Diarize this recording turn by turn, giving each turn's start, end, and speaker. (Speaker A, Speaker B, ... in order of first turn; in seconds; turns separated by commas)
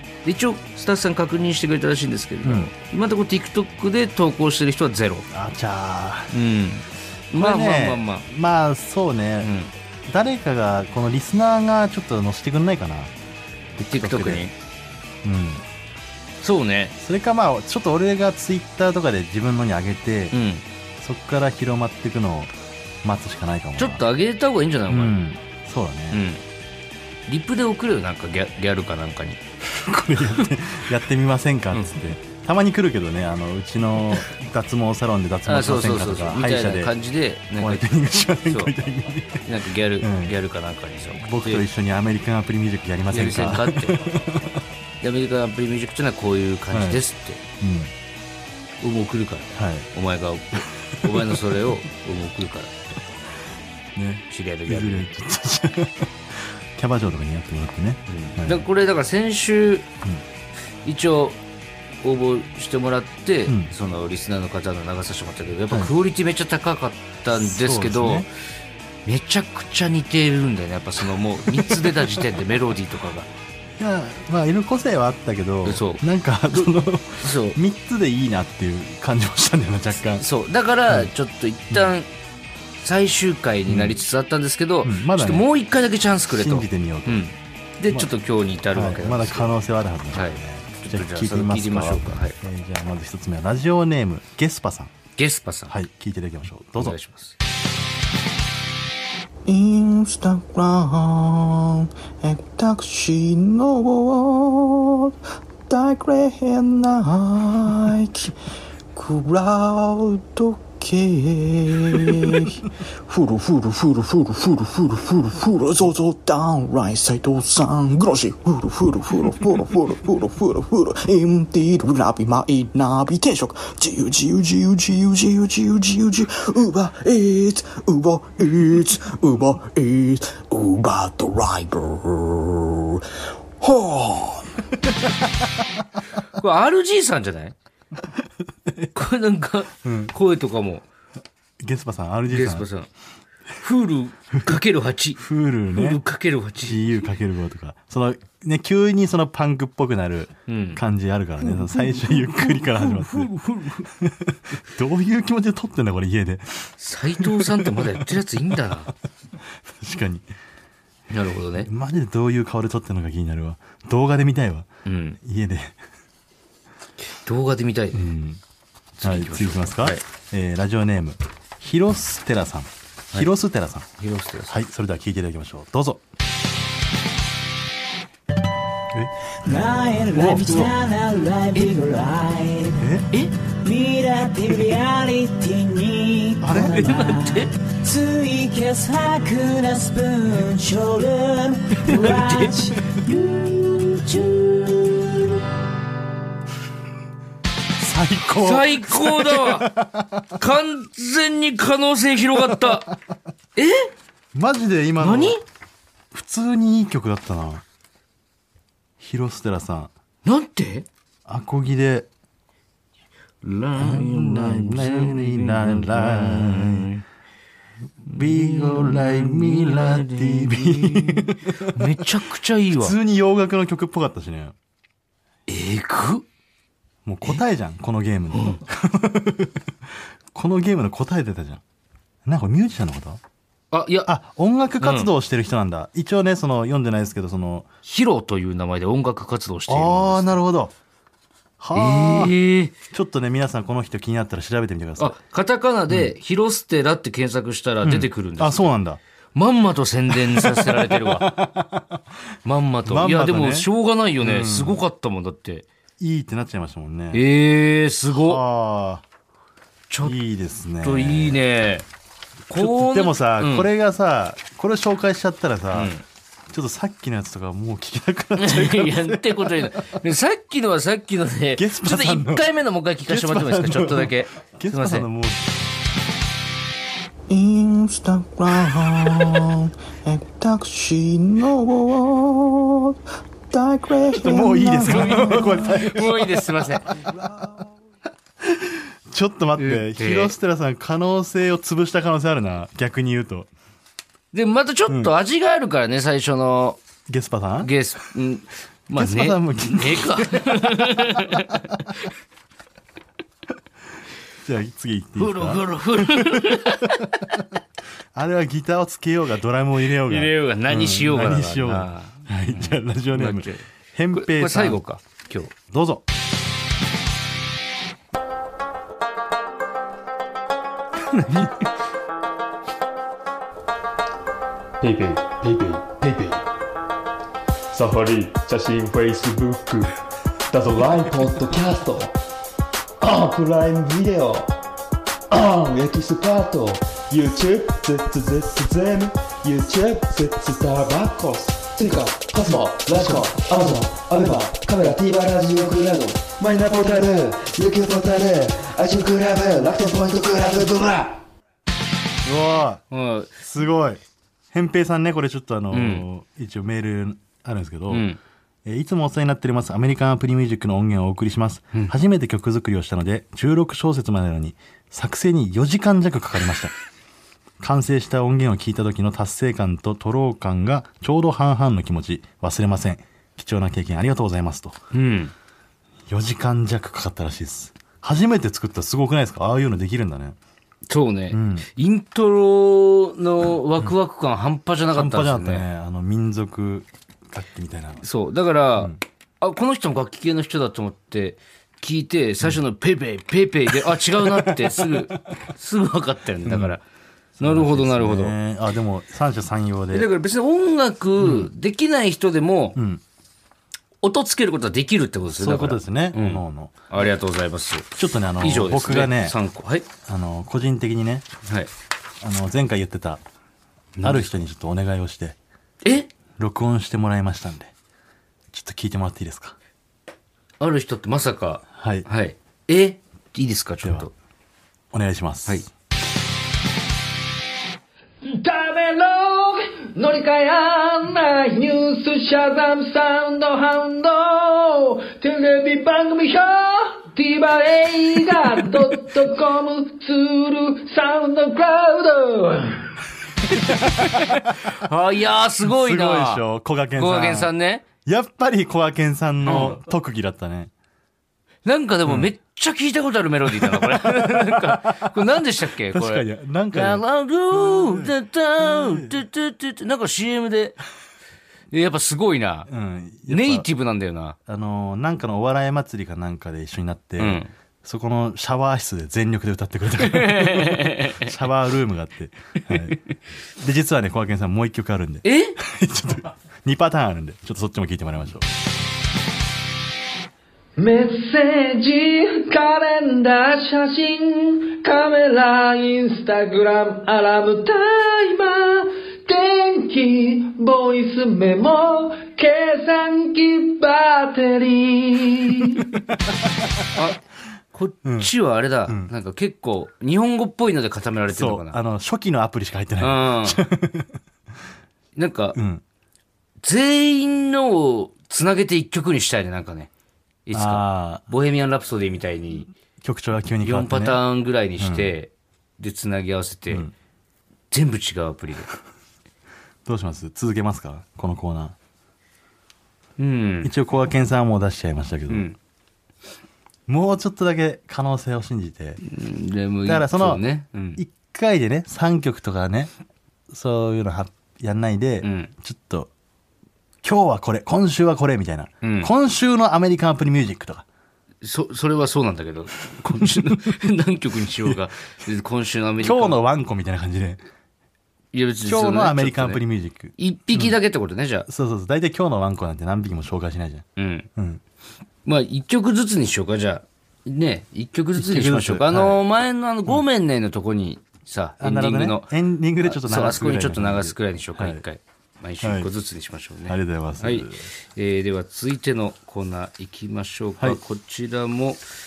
Speaker A: 0.2-5.3, Speaker B: 2.4-2.7, Speaker B: 5.3-6.3, Speaker A: 6.3-8.2, Speaker B: 7.3-9.5, Speaker A: 9.4-9.7, Speaker B: 10.1-13.1, Speaker B: 13.8-14.4, Speaker A: 13.9-14.5, Speaker B: 15.2-15.6, Speaker A: 16.4-16.9, Speaker B: 17.0-20.3, Speaker A: 20.3-20.6, Speaker B: 21.0-22.5, Speaker B: 23.0-24.0, Speaker A: 23.8-25.2, Speaker B: 24.9-26.2, Speaker A: 26.1-26.4, Speaker A: 27.3-29.4, Speaker B: 29.7-36.9, Speaker A: 35.5-38.7, Speaker B: 37.5-39.5, Speaker A: 39.4-41.6, Speaker B: 40.0-40.3, Speaker B: 41.1-44.6, Speaker A: 43.1-44.1, Speaker A: 45.0-47.4, Speaker B: 46.7-47.0, Speaker B: 47.6-47.9, Speaker A: 48.8-52.8, Speaker B: 49.5-49.9, Speaker B: 51.0-51.4, Speaker B: 53.9-58.6, Speaker A: 54.3-55.1, Speaker A: 58.1-59.9, Speaker A: 60.8-61.4, Speaker A: 62.0-68.3, Speaker B: 67.3-68.3, Speaker A: 69.0-73.3, Speaker B: 71.5-72.0, Speaker B: 73.8-80.2, Speaker A: 75.6-76.7, Speaker A: 77.2-77.6, Speaker A: 80.2-82.1, Speaker A: 82.8-89.5, Speaker B: 83.7-84.0, Speaker B: 84.8-85.5, Speaker B: 86.3-87.2, Speaker B: 88.7-94.9, Speaker A: 90.1-92.4, Speaker A: 95.2-95.7, Speaker B: 95.7-97.0, Speaker A: 96.8-97.3, Speaker C: 99.5-105.1, Speaker C: 105.7-108.4, Speaker C: 108.9-133.0, Speaker C: 133.6-134.6, Speaker A: 136.4-137.5, Speaker A: 138.9-140.8, Speaker B: 139.8-140.1, Speaker B: 141.6-142.7, Speaker A: 142.3-142.9, Speaker A: 143.6-146.8, Speaker B: 145.2-146.0, Speaker B: 146.6-153.3, Speaker A: 150.5-150.8, Speaker A: 151.5-153.9, Speaker B: 153.8-158.0, Speaker A: 156.8-158.9, Speaker B: 159.7-160.2, Speaker A: 161.1-161.7, Speaker B: 161.6-164.7, Speaker A: 164.8-165.2, Speaker B: 165.2-165.8, Speaker A: 167.2-168.1, Speaker B: 167.9-168.4, Speaker A: 169.0-170.0, Speaker B: 169.0-173.9, Speaker A: 174.0-174.5, Speaker B: 174.5-176.0, Speaker D: 179.4-182.9, Speaker B: 180.1-180.7, Speaker B: 182.8-183.0, Speaker D: 183.5-195.4, Speaker B: 186.4-187.2, Speaker A: 186.7-187.5, Speaker A: 191.9-192.5, Speaker B: 197.8-200.4, Speaker A: 198.4-199.7, Speaker A: 200.4-202.9, Speaker B: 202.4-202.9, Speaker A: 203.6-203.9, Speaker B: 204.3-205.4, Speaker A: 205.0-205.4, Speaker B: 206.1-207.6, Speaker B: 209.0-209.9, Speaker A: 210.2-210.9, Speaker B: 211.2-212.1, Speaker A: 213.4-217.0, Speaker B: 213.8-216.9, Speaker B: 218.0-222.0, Speaker A: 218.1-222.9, Speaker B: 222.7-224.5, Speaker A: 225.5-226.2, Speaker B: 227.0-229.7, Speaker A: 228.3-228.6, Speaker B: 230.3-231.6, Speaker B: 232.2-233.2, Speaker A: 233.7-234.1, Speaker B: 234.1-237.7, Speaker A: 234.8-235.1, Speaker A: 237.8-240.4, Speaker B: 239.7-240.7, Speaker B: 241.6-242.3, Speaker A: 241.7-242.7, Speaker B: 242.9-245.2, Speaker A: 245.0-248.7, Speaker B: 247.8-249.0, Speaker A: 249.3-251.3, Speaker B: 250.1-252.0, Speaker A: 252.4-255.7, Speaker B: 252.8-254.8, Speaker B: 256.0-257.2, Speaker A: 257.1-258.4, Speaker B: 258.1-259.0, Speaker A: 259.9-260.2, Speaker B: 260.0-261.4, Speaker A: 260.8-261.9, Speaker A: 262.5-263.7, Speaker B: 262.5-265.9, Speaker A: 265.7-266.0, Speaker B: 266.5-270.0, Speaker A: 268.4-275.1, Speaker B: 271.6-272.4, Speaker B: 273.1-275.4, Speaker C: 277.3-283.0, Speaker B: 278.5-279.5, Speaker C: 283.5-285.7, Speaker B: 284.1-287.2, Speaker A: 284.8-286.9, Speaker C: 287.2-287.6, Speaker B: 288.4-293.5, Speaker A: 289.6-290.3, Speaker A: 294.3-296.8, Speaker B: 297.1-297.7, Speaker A: 297.6-302.0, Speaker B: 298.9-301.6, Speaker B: 304.4-307.0, Speaker A: 305.2-307.3, Speaker B: 308.1-314.8, Speaker A: 310.1-315.5, Speaker B: 315.5-316.0, Speaker B: 321.2-321.5, Speaker E: 324.8-326.4, Speaker E: 327.7-329.9, Speaker E: 330.5-332.2, Speaker E: 333.0-334.5, Speaker E: 335.3-351.2, Speaker B: 352.2-352.8, Speaker A: 352.9-353.4, Speaker B: 353.4-354.0, Speaker B: 354.5-358.1, Speaker A: 355.7-356.1, Speaker A: 357.9-358.2, Speaker B: 358.6-366.7, Speaker B: 367.6-374.8, Speaker A: 374.9-375.3, Speaker B: 376.1-380.4, Speaker A: 380.9-385.6, Speaker B: 381.3-381.7, Speaker B: 384.9-388.0, Speaker A: 388.0-396.8, Speaker B: 394.2-395.1, Speaker B: 396.4-396.8, Speaker B: 397.4-400.1, Speaker A: 397.4-398.3, Speaker A: 399.9-402.8, Speaker B: 401.2-401.5, Speaker B: 402.8-403.0, Speaker A: 404.0-409.9, Speaker B: 405.3-406.8, Speaker B: 407.9-409.4, Speaker B: 410.0-411.3, Speaker B: 412.2-413.2, Speaker A: 414.0-414.4, Speaker B: 414.0-415.4, Speaker A: 415.8-416.1, Speaker B: 416.4-417.7, Speaker B: 418.5-419.6, Speaker A: 420.6-424.1, Speaker B: 421.7-422.1, Speaker B: 423.8-424.1, Speaker B: 424.9-425.7, Speaker F: 428.2-442.9, Speaker A: 443.5-446.4, Speaker B: 443.6-444.4, Speaker B: 445.6-447.5, Speaker A: 447.0-447.9, Speaker B: 448.0-450.7, Speaker A: 449.4-449.8, Speaker A: 451.6-460.8, Speaker B: 452.1-452.3, Speaker B: 453.5-455.2, Speaker B: 455.9-458.1, Speaker B: 458.6-459.2, Speaker A: 461.7-462.7, Speaker B: 462.7-463.7, Speaker A: 463.3-464.4, Speaker B: 464.5-473.0, Speaker A: 467.2-467.5, Speaker A: 470.0-471.3, Speaker B: 473.6-478.4, Speaker A: 475.2-475.6, Speaker F: 480.8-495.9, Speaker B: 495.8-496.3, Speaker A: 496.9-497.2, Speaker A: 497.7-501.8, Speaker B: 498.0-498.3, Speaker B: 501.3-504.2, Speaker A: 503.0-503.6, Speaker A: 505.1-505.6, Speaker B: 505.5-505.8, Speaker A: 506.6-509.9, Speaker A: 510.4-512.7, Speaker B: 510.5-511.2, Speaker B: 513.0-514.2, Speaker A: 513.6-516.9, Speaker B: 514.8-515.1, Speaker A: 517.7-518.7, Speaker B: 519.9-521.8, Speaker A: 523.2-523.7, Speaker B: 523.6-525.5, Speaker A: 525.3-525.5, Speaker B: 526.9-529.0, Speaker A: 529.0-531.0, Speaker B: 529.9-530.4, Speaker B: 531.0-532.9, Speaker B: 533.5-536.1, Speaker A: 535.2-535.5, Speaker B: 537.0-540.9, Speaker A: 538.8-539.1, Speaker A: 541.4-546.4, Speaker B: 543.1-543.7, Speaker B: 546.0-547.4, Speaker A: 548.3-549.6, Speaker B: 548.6-550.7, Speaker A: 550.2-551.5, Speaker B: 551.5-554.6, Speaker A: 554.0-554.3, Speaker A: 555.2-571.8, Speaker B: 558.2-559.2, Speaker B: 561.6-564.8, Speaker B: 565.6-565.9, Speaker B: 566.6-567.7